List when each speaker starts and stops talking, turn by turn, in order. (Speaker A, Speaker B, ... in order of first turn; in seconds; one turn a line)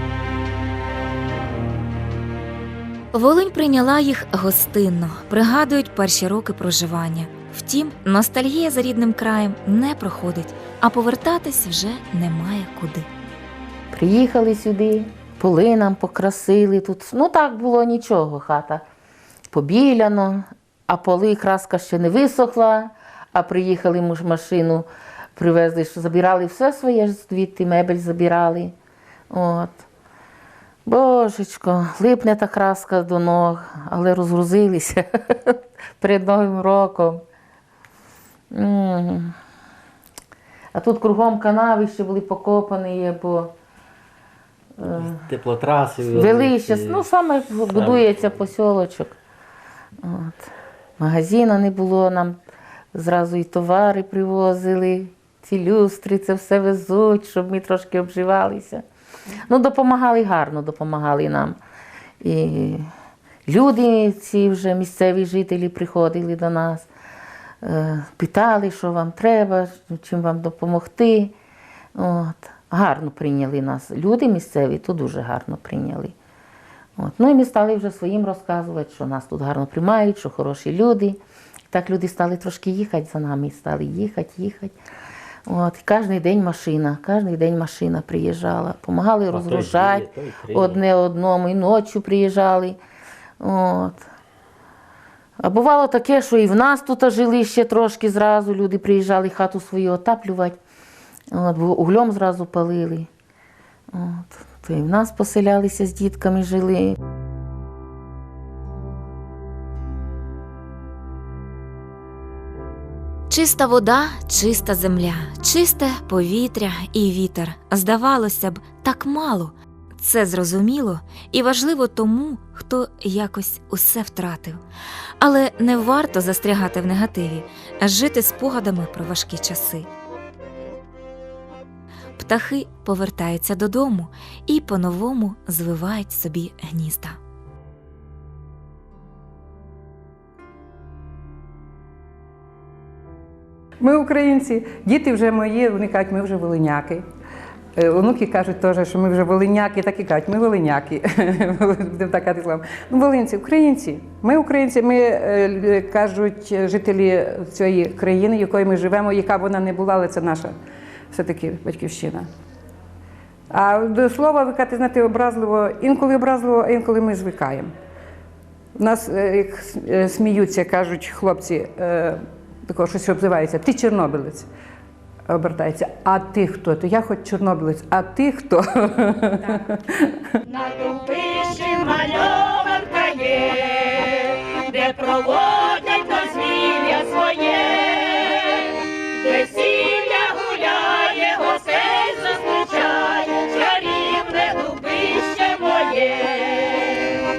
Speaker A: 3.1-13.1
Speaker B: 13.9-18.8
Speaker B: 19.5-28.7
Speaker B: 29.3-29.8
Speaker B: 30.8-37.2
Speaker B: 38.5-39.3
Speaker B: 40.7-43.5
Speaker B: 44.8-45.2
Speaker C: 44.9-47.1
Speaker B: 46.1-49.1
Speaker C: 47.6-48.5
Speaker B: 50.0-52.4
Speaker B: 52.9-58.8
Speaker B: 59.5-61.6
Speaker B: 62.2-62.9
Speaker B: 63.5-66.9
Speaker B: 67.6-71.3
Speaker B: 71.9-76.1
Speaker B: 77.0-84.7
Speaker B: 85.5-92.8
Speaker C: 89.3-90.8
Speaker B: 93.4-94.0
Speaker B: 95.4-100.6
Speaker B: 101.3-103.1
Speaker B: 103.9-107.0
Speaker A: 113.3-124.6
Speaker A: 125.2-129.9
Speaker A: 132.2-137.2
Speaker D: 143.8-147.0
Speaker D: 147.8-160.5
Speaker D: 161.1-162.3
Speaker D: 163.5-167.7
Speaker D: 168.8-174.5
Speaker D: 175.3-180.2
Speaker E: 180.5-197.2